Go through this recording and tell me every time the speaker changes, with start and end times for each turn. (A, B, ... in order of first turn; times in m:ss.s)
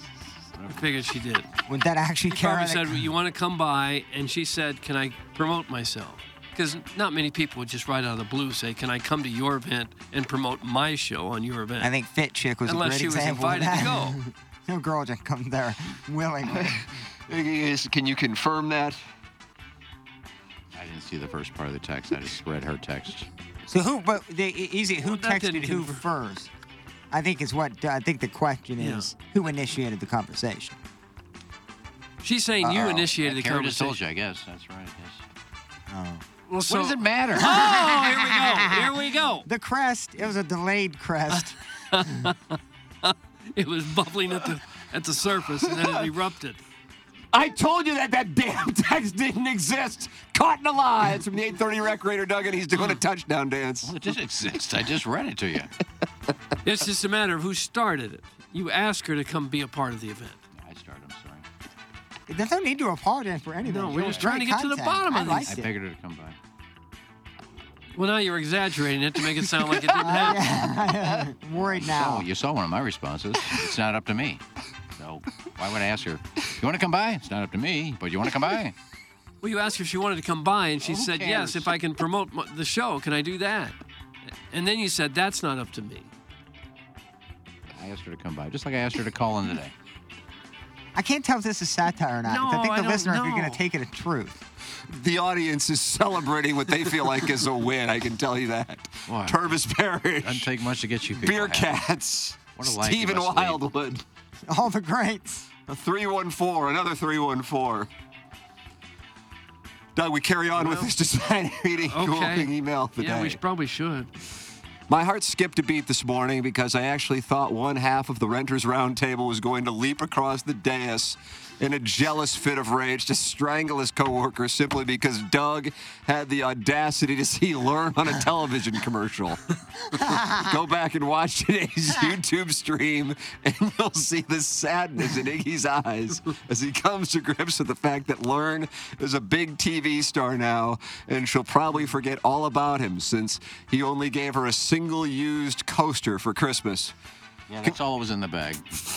0:00.5-0:00.8 A
0:00.7-0:01.5 B
0:01.7-0:03.1 C
0:02.3-0:11.9 B
0:11.8-0:16.8 C
0:12.6-0:14.2 B
0:16.5-0:19.0 D
0:20.7-0:23.3 A
0:23.7-0:26.5 C
0:25.0-0:26.0 B
0:27.1-0:30.8 C
0:28.8-0:29.1 B
0:32.2-0:34.0 B
0:32.6-0:33.1 C
0:33.2-0:35.2 A
0:35.9-0:36.2 C
0:36.5-0:39.5 B
0:36.7-0:37.7 A
0:37.4-0:42.3 C
0:41.3-0:46.6 B
0:47.3-0:54.0 D
0:53.8-0:55.7 A
0:56.6-1:00.4 B
1:00.6-1:01.5 A
1:02.3-1:05.7 C
1:03.6-1:05.5 B
1:03.9-1:04.3 A
1:05.2-1:06.4 A
1:08.0-1:10.4 B
1:10.0-1:12.3 C
1:11.6-1:14.4 A
1:15.0-1:18.8 A
1:19.4-1:23.8 B
1:20.8-1:21.7 A
1:24.5-1:26.1 B
1:27.7-1:29.7 A
1:31.0-1:34.5 C
1:32.2-1:33.6 B
1:34.9-1:40.5 D
1:39.1-1:39.6 A
1:40.2-1:41.8 A
1:41.2-1:44.0 D
1:42.5-1:43.6 A
1:44.4-1:45.5 C
1:45.6-1:47.9 D
1:50.0-1:53.4 D
1:50.6-1:50.9 B
1:51.9-1:54.1 B
1:54.9-2:26.9 D
2:27.5-2:28.6 A